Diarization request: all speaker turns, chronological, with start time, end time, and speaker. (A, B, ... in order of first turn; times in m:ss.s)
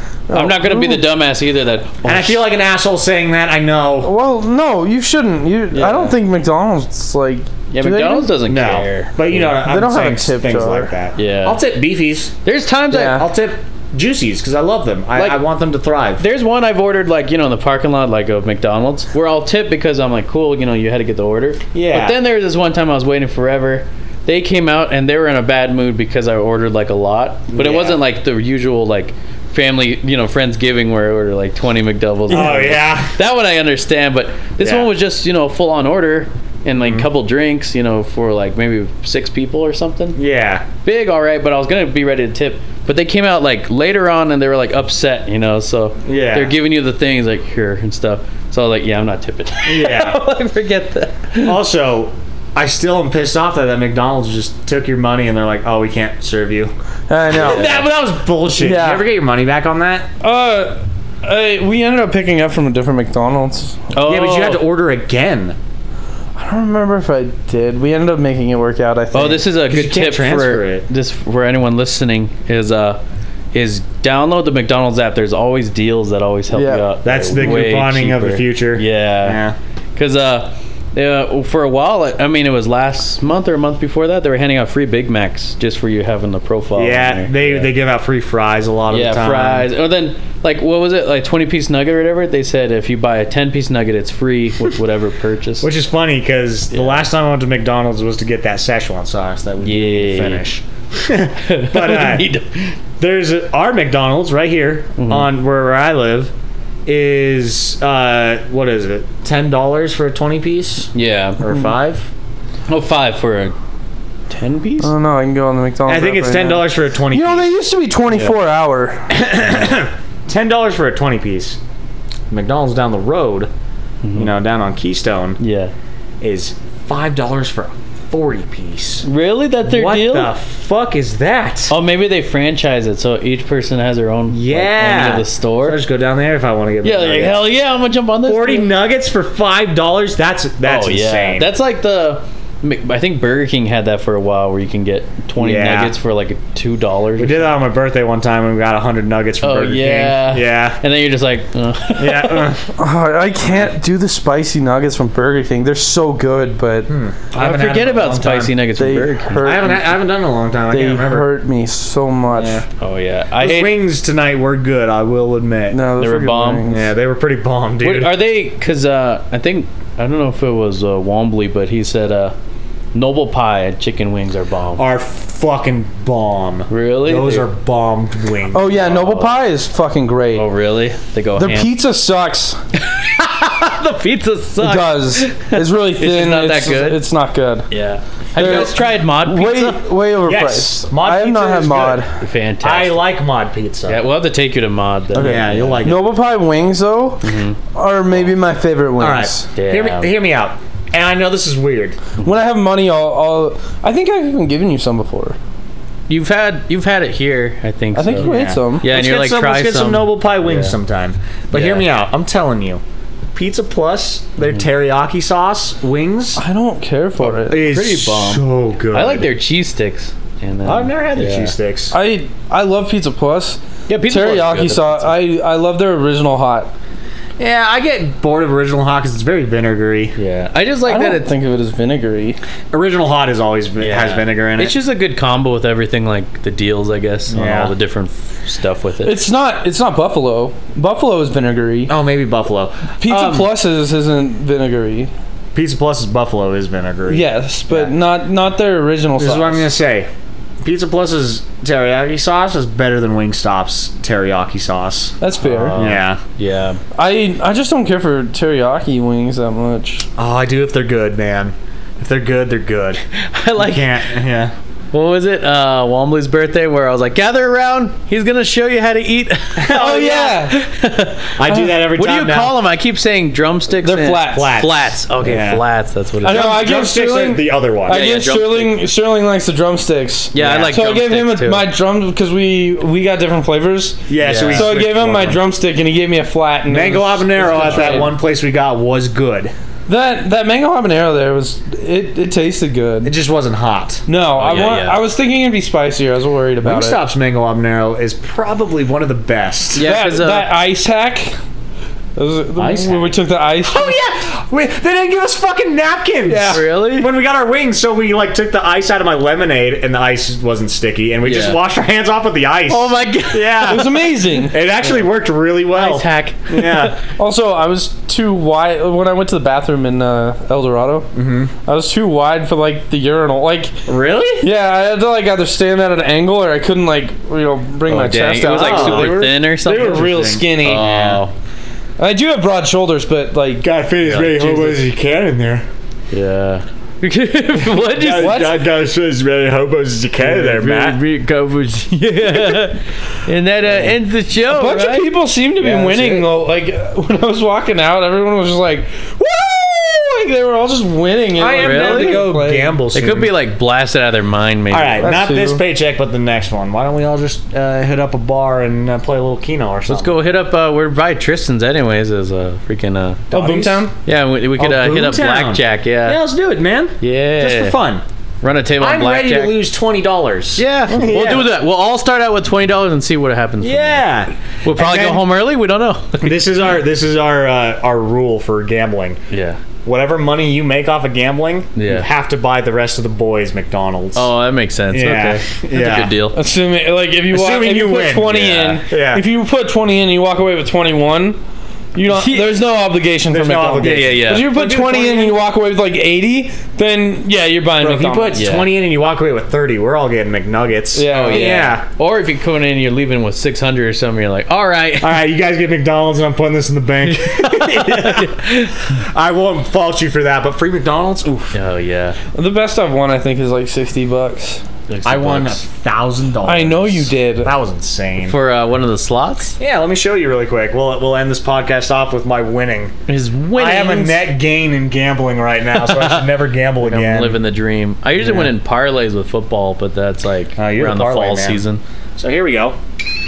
0:00.3-0:01.1 A
0:00.3-0:02.4 B
0:02.0-0:04.1 C
0:04.0-0:08.3 A
0:05.7-0:06.2 B
0:07.7-0:09.5 B
0:08.4-0:12.3 C
0:09.5-0:10.9 A
0:11.2-0:11.6 B
0:12.4-0:13.2 B
0:12.9-0:13.2 A
0:12.9-0:16.2 C
0:15.2-0:15.4 B
0:16.2-0:40.2 B
0:21.7-0:22.2 C
0:27.5-0:28.0 C
0:32.3-0:33.1 C
0:32.3-0:32.6 A
0:34.6-0:34.9 C
0:36.7-0:37.1 C
0:40.2-0:40.6 C
0:40.8-0:51.6 B
0:46.0-0:46.6 C
0:49.6-0:50.2 C
0:51.4-0:56.7 C
0:57.1-0:57.7 A
0:57.3-1:00.1 C
0:57.4-0:57.9 B
0:58.5-0:59.0 A
1:00.2-1:03.8 A
1:03.9-1:04.6 B
1:04.0-1:05.6 C
1:06.4-1:09.4 A
1:09.1-1:13.0 B
1:09.7-1:10.9 C
1:13.5-1:19.4 B
1:16.5-1:17.4 A
1:17.0-1:19.6 C
1:20.0-1:27.7 B
1:26.8-1:29.7 C
1:28.9-1:35.7 B
1:35.6-1:42.3 C
1:36.7-1:37.0 B
1:39.6-1:40.4 B
1:41.4-1:42.7 B
1:43.0-1:46.3 C
1:45.0-1:45.3 B
1:46.8-1:52.1 C
1:50.9-1:51.5 B
1:52.7-1:53.6 B
1:54.3-1:54.9 B
1:54.8-1:59.1 A
1:55.8-1:57.5 C
1:59.1-2:01.6 C
2:02.3-2:03.5 C
2:04.0-2:04.3 B
2:04.1-2:05.4 C
2:05.4-2:05.7 B
2:06.2-2:09.0 C
2:09.0-2:10.3 B
2:09.6-2:11.7 C
2:11.7-2:15.8 B
2:14.3-2:17.4 C
2:16.8-2:18.7 B
2:18.2-2:21.5 C
2:20.6-2:27.6 B
2:25.4-2:26.0 C
2:27.2-2:30.8 C
2:29.4-2:32.6 B
2:32.0-2:32.7 C
2:32.8-2:36.9 A
2:33.4-2:33.7 B
2:36.9-2:38.5 C
2:37.3-2:39.6 B
2:38.8-2:40.0 A
2:39.4-2:41.3 C
2:40.7-2:42.6 A
2:42.3-2:42.6 C
2:42.8-2:43.8 B
2:43.4-2:45.8 C
2:45.7-2:46.8 A
2:46.0-2:46.7 B
2:46.7-2:48.2 C
2:47.8-2:52.3 B
2:52.9-2:54.8 B
2:54.8-2:58.7 C
2:56.7-2:57.5 B
2:58.5-3:00.5 A
2:58.7-2:59.4 B
3:00.3-3:01.7 B
3:01.4-3:02.6 A
3:02.7-3:07.0 B
3:04.6-3:07.7 A
3:07.7-3:09.8 B
3:08.3-3:12.1 A
3:10.2-3:12.0 C
3:12.2-3:13.0 B
3:12.6-3:14.0 C
3:13.9-3:15.9 B
3:15.1-3:19.4 A
3:15.1-3:16.1 C
3:17.2-3:17.6 B
3:19.0-3:22.0 C
3:19.5-3:20.1 B
3:22.2-3:25.4 A
3:26.1-3:30.8 B
3:27.9-3:28.8 A
3:28.1-3:32.8 C
3:31.5-3:31.8 B
3:33.3-3:36.4 C
3:36.4-3:37.6 A
3:37.2-3:41.5 B
3:37.5-3:39.3 C
3:40.6-3:41.9 C
3:41.9-3:46.7 A
3:43.9-3:45.1 B
3:47.4-3:50.1 C
3:50.2-3:51.3 B
3:50.9-3:52.4 A
3:52.7-3:54.7 C
3:53.8-3:59.2 B
3:57.3-3:57.7 C
3:59.0-4:01.9 A
4:01.9-4:03.5 C
4:03.0-4:05.1 A
4:05.5-4:07.9 C
4:07.1-4:09.7 A
4:09.2-4:10.1 C
4:10.6-4:15.2 C
4:15.2-4:15.8 A
4:15.5-4:16.8 B
4:15.7-4:16.2 C
4:16.9-4:20.0 A
4:20.2-4:23.0 C
4:23.2-4:24.0 B
4:23.6-4:24.5 C
4:24.9-4:36.5 B
4:29.5-4:30.4 C
4:29.7-4:30.6 A
4:31.4-4:32.6 C
4:33.8-4:34.6 A
4:34.3-4:35.6 C
4:36.2-4:48.1 A
4:36.2-4:38.0 C
4:37.9-4:38.8 B
4:40.3-4:41.6 B
4:40.4-4:40.8 C
4:44.1-4:45.4 C
4:44.2-4:44.7 B
4:46.6-4:49.5 C
4:47.4-4:48.1 B
4:49.9-4:53.1 A
4:53.0-4:54.0 C
4:54.1-4:57.0 A
4:54.4-4:55.0 B
4:56.6-4:59.9 C
4:59.7-5:00.5 B
4:59.8-5:01.4 A
5:02.2-5:03.9 A
5:02.6-5:17.0 C
5:06.3-5:06.6 A
5:06.3-5:07.1 B
5:11.2-5:11.6 B
5:12.7-5:13.9 B
5:13.7-5:14.6 A
5:15.7-5:17.0 B
5:17.2-5:21.1 A
5:21.1-5:21.5 C
5:21.6-5:23.7 A
5:23.9-5:24.5 C
5:24.4-5:31.2 A
5:27.9-5:31.3 B
5:28.6-5:30.9 C
5:32.0-5:33.7 A
5:33.6-5:35.6 C
5:34.0-5:34.8 B
5:36.1-5:38.4 B
5:37.7-5:41.0 C
5:38.0-5:38.6 A
5:40.2-5:45.1 B
5:43.6-5:43.9 C
5:44.4-5:52.8 A
5:45.6-5:46.3 C
5:51.4-5:53.3 C
5:51.4-5:52.3 B
5:52.9-5:55.1 B
5:54.7-6:00.2 C
5:55.0-5:55.6 A
5:59.9-6:03.2 B
6:03.3-6:03.9 C
6:03.3-6:03.9 A
6:04.0-6:06.2 B
6:04.6-6:08.0 C
6:07.0-6:07.8 B
6:08.4-6:09.6 B
6:08.8-6:11.5 C
6:10.6-6:14.1 B
6:13.6-6:15.2 C
6:14.6-6:16.4 B
6:16.2-6:19.2 C
6:19.3-6:19.6 B
6:19.8-6:24.3 C
6:21.8-6:22.1 B
6:24.1-6:26.4 B
6:24.9-6:26.1 C
6:26.3-6:31.4 A
6:27.3-6:29.2 C
6:31.9-6:38.3 A
6:32.1-6:32.6 B
6:33.3-6:35.4 C
6:33.8-6:34.5 B
6:37.8-6:41.8 C
6:38.3-6:38.7 B
6:40.9-6:41.6 A
6:41.1-6:45.2 B
6:45.0-6:51.6 C
6:47.1-6:48.9 B
6:51.5-6:52.2 B
6:52.3-6:54.6 A
6:54.9-6:55.6 B
6:55.0-6:58.4 C
6:56.4-6:57.5 A
6:58.2-6:59.6 B
6:59.6-7:02.9 C
7:03.1-7:04.2 B
7:03.5-7:07.4 C
7:05.7-7:06.3 B
7:06.8-7:11.8 B
7:08.2-7:08.5 C
7:10.6-7:11.6 C
7:12.2-7:12.8 C